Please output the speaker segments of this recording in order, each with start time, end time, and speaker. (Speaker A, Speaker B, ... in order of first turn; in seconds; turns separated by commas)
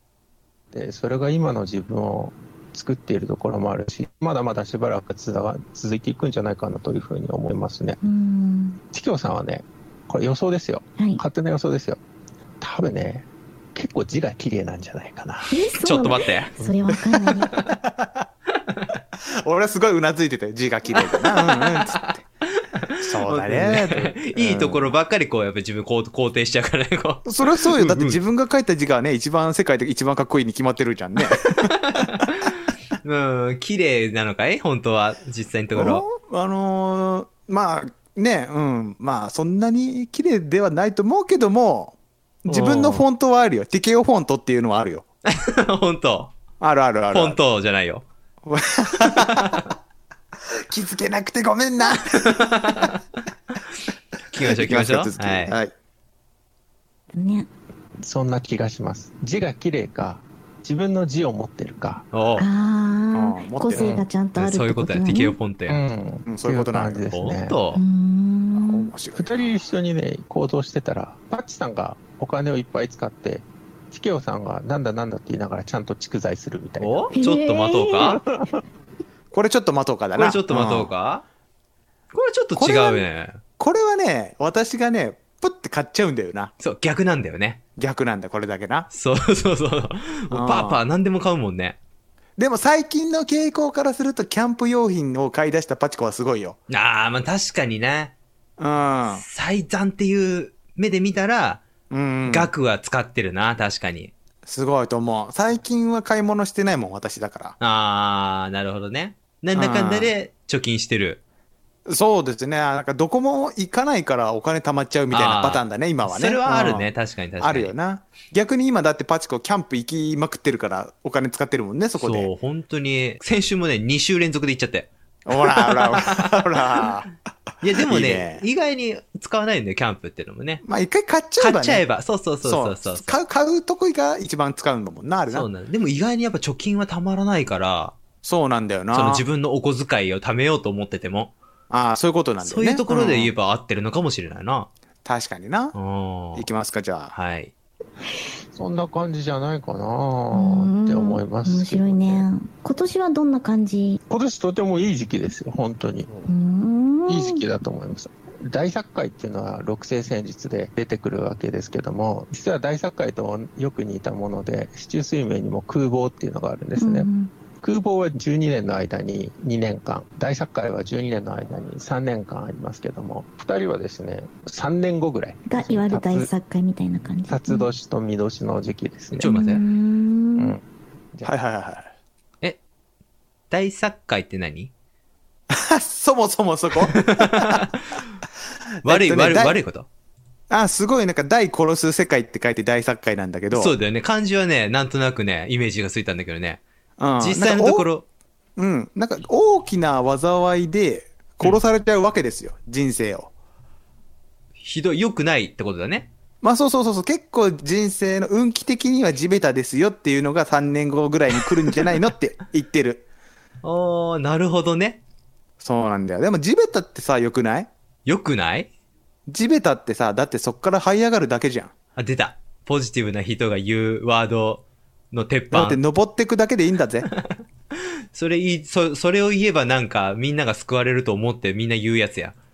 Speaker A: 0.7-8.0, Speaker B: 8.0-8.8, Speaker A: 8.9-12.0, Speaker B: 11.0-11.2, Speaker A: 12.6-15.5, Speaker B: 15.5-17.5, Speaker C: 15.8-16.5, Speaker A: 16.6-17.0, Speaker D: 17.7-18.2, Speaker D: 19.4-22.2, Speaker C: 20.9-28.2, Speaker D: 23.0-24.9, Speaker D: 27.2-32.2, Speaker C: 31.6-36.0, Speaker D: 35.8-45.0, Speaker C: 42.5-43.0, Speaker C: 45.2-46.3, Speaker D: 46.6-47.4, Speaker C: 47.1-48.0, Speaker D: 48.5-49.6, Speaker C: 49.1-49.6, Speaker D: 50.7-52.5, Speaker C: 51.9-53.0, Speaker C: 54.3-55.5, Speaker D: 54.4-55.7, Speaker B: 57.1-57.5, Speaker A: 58.0-62.0, Speaker C: 62.1-62.5, Speaker B: 62.4-65.4, Speaker D: 63.1-63.9, Speaker A: 63.7-64.0, Speaker C: 64.3-65.8, Speaker A: 65.7-67.6, Speaker D: 66.2-67.0, Speaker C: 67.1-67.8, Speaker B: 67.7-68.9, Speaker D: 68.5-69.2, Speaker A: 69.1-77.0, Speaker C: 76.8-78.2, Speaker B: 77.1-78.2, Speaker A: 78.0-78.6, Speaker D: 79.3-80.9, Speaker C: 80.1-81.2, Speaker C: 82.1-83.4, Speaker D: 82.5-83.0, Speaker D: 83.6-86.5, Speaker C: 86.6-87.6, Speaker D: 87.8-88.9, Speaker C: 88.9-91.8, Speaker D: 90.3-90.8, Speaker D: 92.4-96.6, Speaker C: 96.7-98.1, Speaker D: 98.6-99.2, Speaker C: 99.2-101.6, Speaker D: 101.9-102.5, Speaker C: 102.3-104.1, Speaker D: 104.5-107.6, Speaker C: 107.6-111.2, Speaker D: 109.5-110.1, Speaker D: 111.8-116.9, Speaker C: 115.1-117.7, Speaker D: 117.4-122.3, Speaker C: 122.0-126.8, Speaker D: 125.2-127.1, Speaker C: 127.6-130.6, Speaker D: 127.8-128.4, Speaker D: 130.6-131.8, Speaker C: 131.4-133.2, Speaker D: 132.4-135.5, Speaker C: 135.3-138.0, Speaker D: 138.2-139.2, Speaker C: 138.9-141.3, Speaker D: 141.7-143.3, Speaker C: 142.4-144.7, Speaker D: 145.0-145.8, Speaker C: 145.7-146.5, Speaker D: 146.3-147.1, Speaker C: 147.1-147.5, Speaker A: 148.5-152.3, Speaker B: 150.3-154.0, Speaker A: 154.1-156.1, Speaker B: 156.2-157.4, Speaker A: 157.1-167.1, Speaker B: 166.8-167.3, Speaker A: 167.6-176.3, Speaker B: 175.5-177.7, Speaker A: 177.3-179.4, Speaker C: 179.2-179.6, Speaker B: 179.2-180.5, Speaker A: 180.4-180.6, Speaker D: 181.2-181.9, Speaker C: 183.5-184.7, Speaker D: 185.5-187.6, Speaker C: 186.8-188.0, Speaker D: 188.8-189.6, Speaker C: 188.8-189.9, Speaker D: 190.5-193.7, Speaker C: 193.5-196.6, Speaker D: 197.0-197.8, Speaker C: 197.2-198.0, Speaker D: 198.6-203.3, Speaker C: 204.6-206.1, Speaker D: 206.4-213.0, Speaker C: 213.6-215.0, Speaker D: 215.6-217.7, Speaker C: 218.1-218.7, Speaker D: 219.3-221.7, Speaker C: 221.9-225.8, Speaker D: 225.5-227.1, Speaker C: 227.1-227.3, Speaker C: 228.1-232.3